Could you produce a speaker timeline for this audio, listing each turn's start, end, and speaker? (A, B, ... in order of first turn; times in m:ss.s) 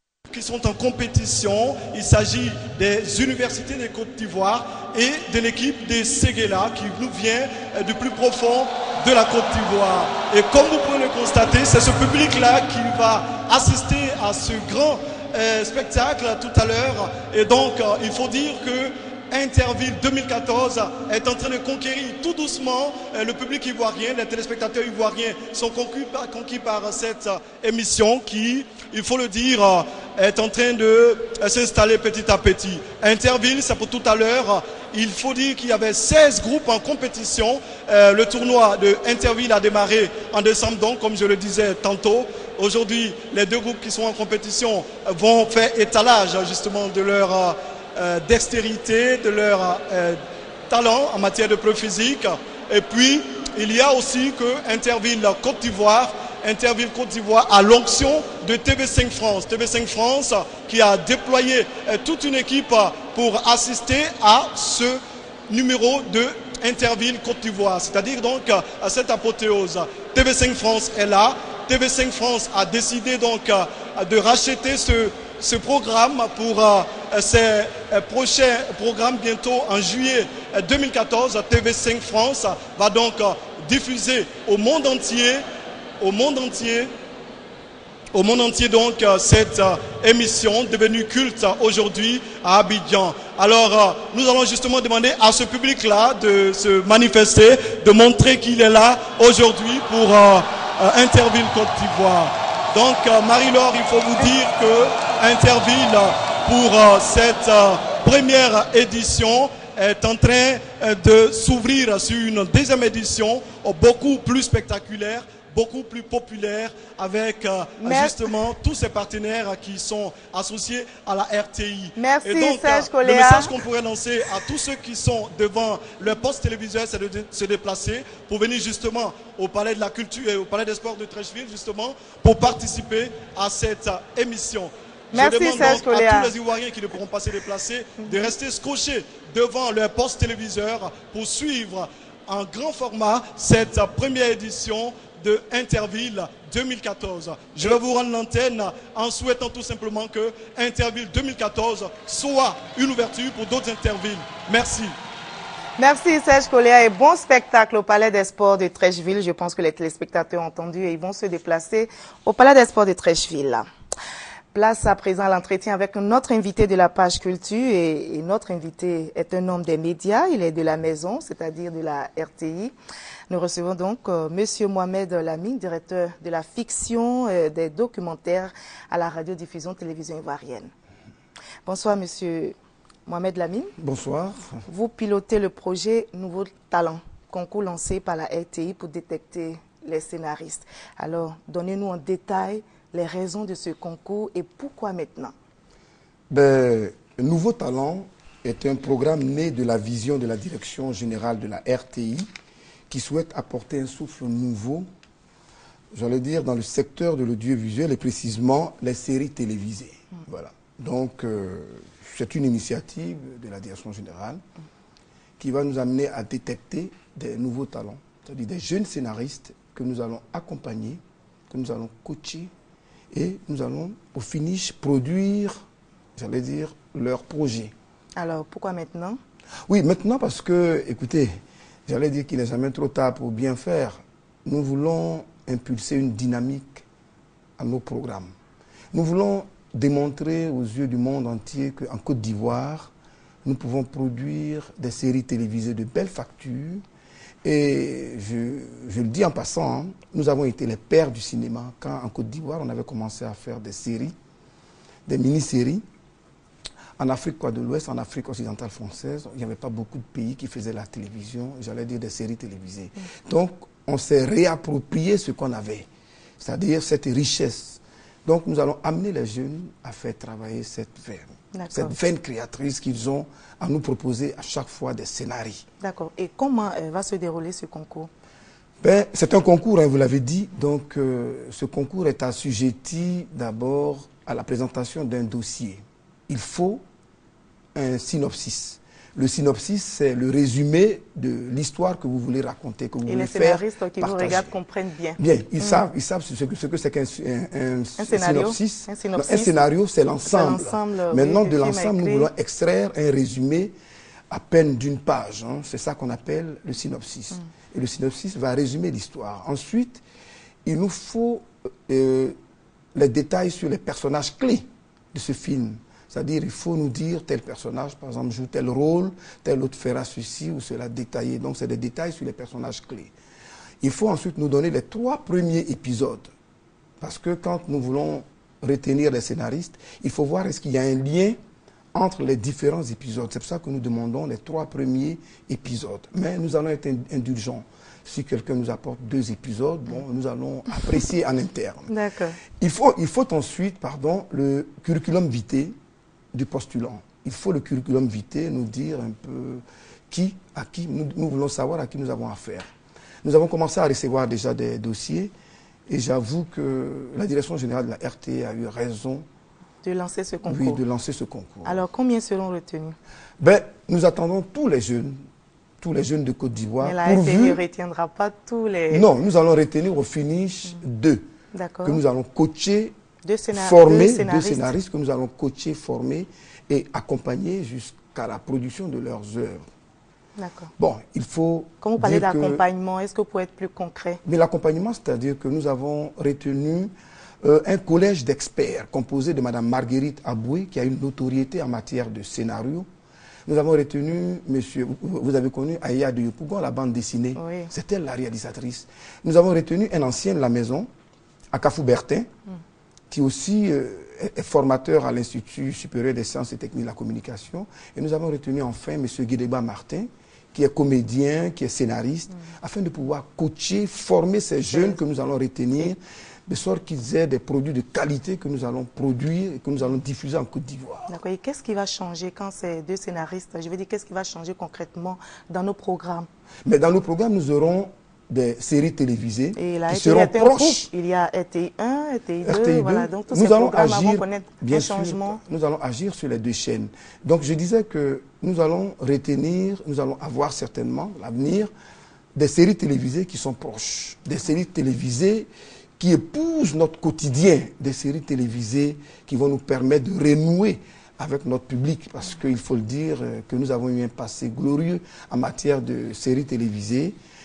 0:00.3-0:50.2 A
0:50.7-1:25.4 A
1:26.0-1:26.9 A
1:28.1-2:35.0 A
1:57.8-1:58.3 B
2:02.0-2:03.6 B
2:15.1-2:16.4 B
2:18.0-2:18.3 B
2:35.8-2:43.7 B
2:44.5-2:52.7 B
2:53.3-3:00.7 B
3:01.7-3:02.5 B
3:03.1-3:03.7 B
3:03.8-3:04.6 C
3:04.7-3:15.3 B
3:16.3-3:22.3 C
3:22.9-3:24.9 C
3:25.9-3:34.4 C
3:35.4-3:42.5 C
3:43.1-3:45.6 C
3:46.2-3:47.7 C
3:48.2-3:49.2 B
3:49.7-3:56.8 C
3:57.6-3:58.3 C
3:58.9-4:02.9 C
4:03.4-4:06.8 C
4:07.4-4:14.2 C
4:15.1-4:15.8 C
4:17.0-4:25.9 C
4:26.4-4:35.6 C
4:31.5-4:32.0 B
4:35.8-4:38.1 B
4:38.8-4:46.8 C
4:47.8-4:54.6 C
4:53.1-4:55.8 B
4:55.2-5:03.7 C
4:58.0-4:59.6 B
5:00.2-5:02.3 B
5:04.3-5:10.0 C
5:10.7-5:12.4 C
5:13.0-5:23.1 C
5:23.8-5:26.3 C
5:27.0-5:31.4 C
5:31.9-5:41.9 C
5:41.9-5:42.4 B
5:42.6-5:45.8 C
5:46.3-5:52.7 C
5:53.2-5:55.3 C
5:55.9-5:59.3 C
5:59.8-6:00.8 B
6:00.5-6:01.8 C
6:01.6-6:03.0 B
6:03.4-6:05.2 C
6:05.8-6:07.6 C
6:06.8-6:09.0 B
6:08.9-6:11.2 C
6:11.5-6:12.0 B
6:11.8-6:12.9 C
6:13.2-6:14.8 B
6:13.5-6:19.6 C
6:20.4-6:20.7 B
6:20.8-6:22.6 C
6:21.8-6:24.2 B
6:24.2-6:26.9 C
6:27.4-6:32.9 C
6:33.5-6:40.9 C
6:37.4-6:37.7 B
6:41.5-6:42.3 C
6:43.1-7:01.1 C
6:54.7-6:55.0 B
7:01.1-7:06.3 B
7:06.7-7:10.9 C
7:09.6-7:15.4 B
7:12.4-7:21.7 C
7:22.4-7:25.5 C
7:26.0-7:37.2 C